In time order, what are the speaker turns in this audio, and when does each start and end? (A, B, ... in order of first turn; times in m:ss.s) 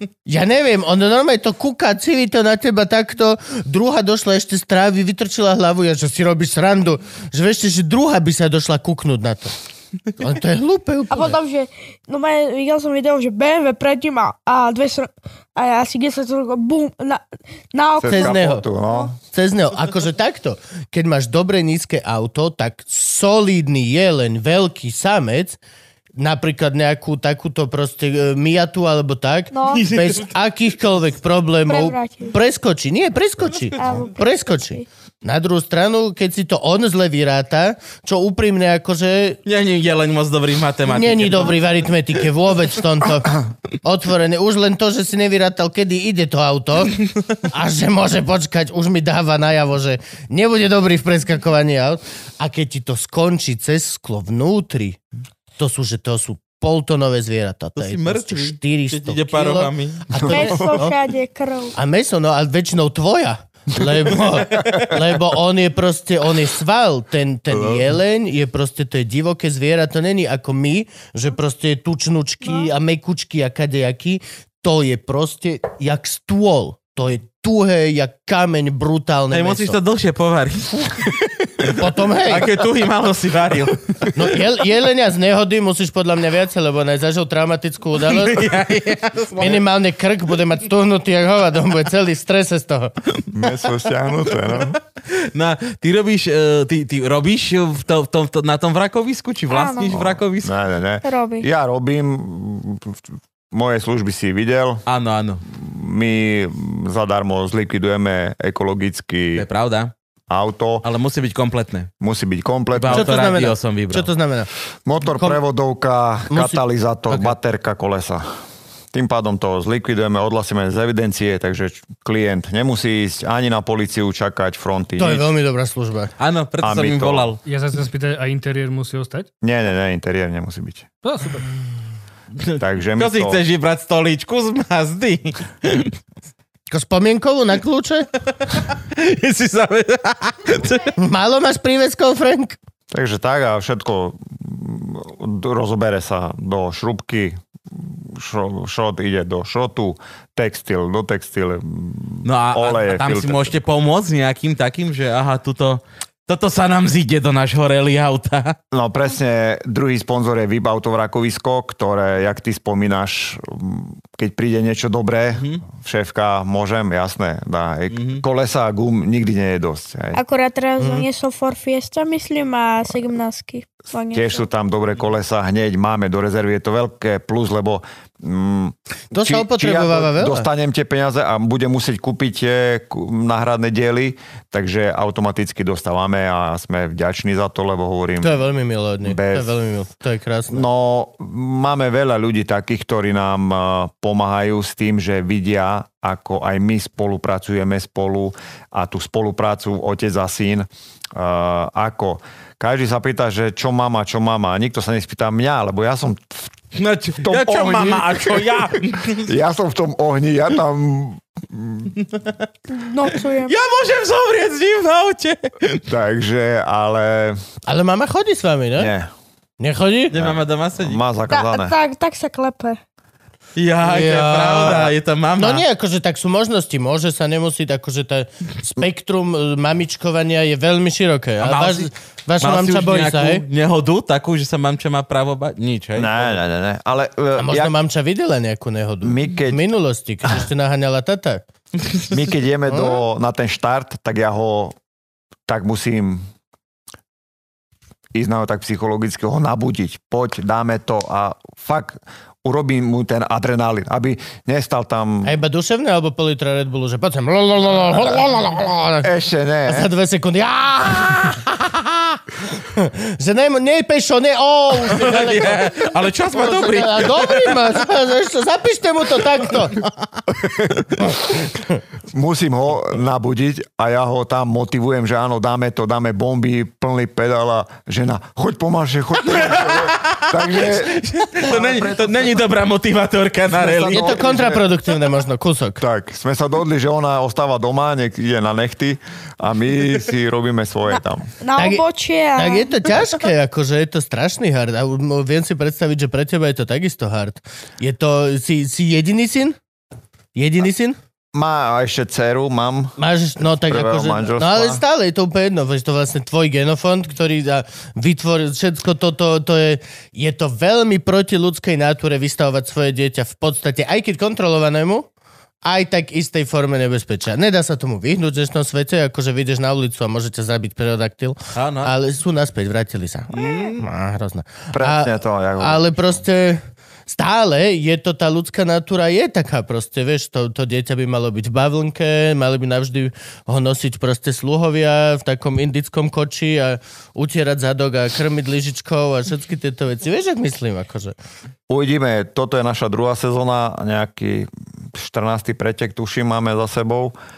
0:00.3-0:09.6 A
0:10.2-0:11.4 A
0:11.1-0:19.1 B
0:18.0-0:19.2 C
0:18.1-0:18.6 A
0:19.3-0:25.6 A
0:26.2-0:39.4 A
0:29.5-0:29.9 B
0:29.7-0:30.4 D
0:31.7-0:32.3 B
0:33.8-0:34.0 D
0:33.8-0:34.8 B
0:39.5-0:41.7 D
0:40.9-0:55.0 A
0:55.6-1:01.0 A
0:57.8-1:00.1 D
1:00.2-1:00.8 C
1:00.3-1:01.7 B
1:01.8-1:19.8 A
1:04.5-1:04.9 C
1:07.5-1:07.8 C
1:19.3-1:24.4 D
1:21.6-1:22.5 A
1:24.1-1:28.5 A
1:28.0-1:29.6 D
1:29.4-1:33.0 A
1:33.3-1:34.8 C
1:34.6-1:40.5 D
1:39.5-1:40.0 B
1:39.9-1:44.8 C
1:41.0-1:41.5 B
1:44.9-1:45.4 D
1:45.5-1:49.5 C
1:49.4-1:49.9 D
1:50.3-1:50.9 C
1:50.8-1:51.9 D
1:52.0-1:53.2 C
1:52.8-1:54.1 D
1:52.9-1:54.5 A
1:54.9-1:58.3 C
1:55.0-1:55.4 A
1:56.3-1:57.3 A
1:58.9-2:05.3 C
2:05.0-2:06.1 A
2:06.2-2:07.4 D
2:06.6-2:07.3 C
2:07.4-2:09.3 E
2:09.4-2:10.9 C
2:11.0-2:11.5 E
2:12.4-2:15.9 D
2:12.6-2:13.4 C
2:16.7-2:18.1 A
2:18.5-2:21.0 D
2:21.0-2:22.6 A
2:22.9-2:33.6 C
2:32.2-2:38.6 D
2:38.7-2:50.2 C
2:45.4-2:45.6 D
2:47.9-2:48.2 D
2:50.1-2:54.5 B
2:50.8-2:51.1 A
2:54.1-3:08.4 C
2:59.1-3:00.5 A
3:08.2-3:10.6 A
3:09.0-3:09.5 C
3:10.5-3:26.5 C
3:26.7-3:29.3 D
3:27.2-3:32.0 C
3:32.7-3:33.6 B
3:33.4-3:35.9 D
3:35.9-3:37.4 C
3:37.7-3:38.9 A
3:38.8-3:39.1 C
3:39.6-3:40.2 A
3:40.1-3:41.0 D
3:40.1-3:41.8 C
3:41.3-3:42.8 B
3:43.6-3:45.6 D
3:43.8-3:53.4 A
3:51.4-3:51.9 D
3:52.4-3:56.4 D
3:56.0-3:57.7 C
3:57.4-4:01.4 A
3:59.0-3:59.6 C
4:02.1-4:04.8 C
4:02.7-4:03.0 A
4:05.5-4:06.2 C
4:08.1-4:15.4 C
4:15.2-4:19.1 A
4:19.0-4:19.9 C
4:19.7-4:29.8 A
4:24.8-4:27.7 D
4:30.4-4:31.1 C
4:32.1-4:42.4 C
4:39.2-4:44.3 D
4:43.5-4:44.6 C
4:43.9-4:45.8 A
4:45.8-4:51.3 C
4:50.9-4:52.7 B
4:51.6-4:51.8 A
4:52.4-4:59.6 A
5:00.4-5:01.0 A
5:01.3-5:04.8 C
5:03.0-5:15.1 A
5:15.6-5:41.2 A
5:21.6-5:21.9 D
5:23.3-5:23.8 D
5:24.7-5:26.2 C
5:41.7-5:47.2 C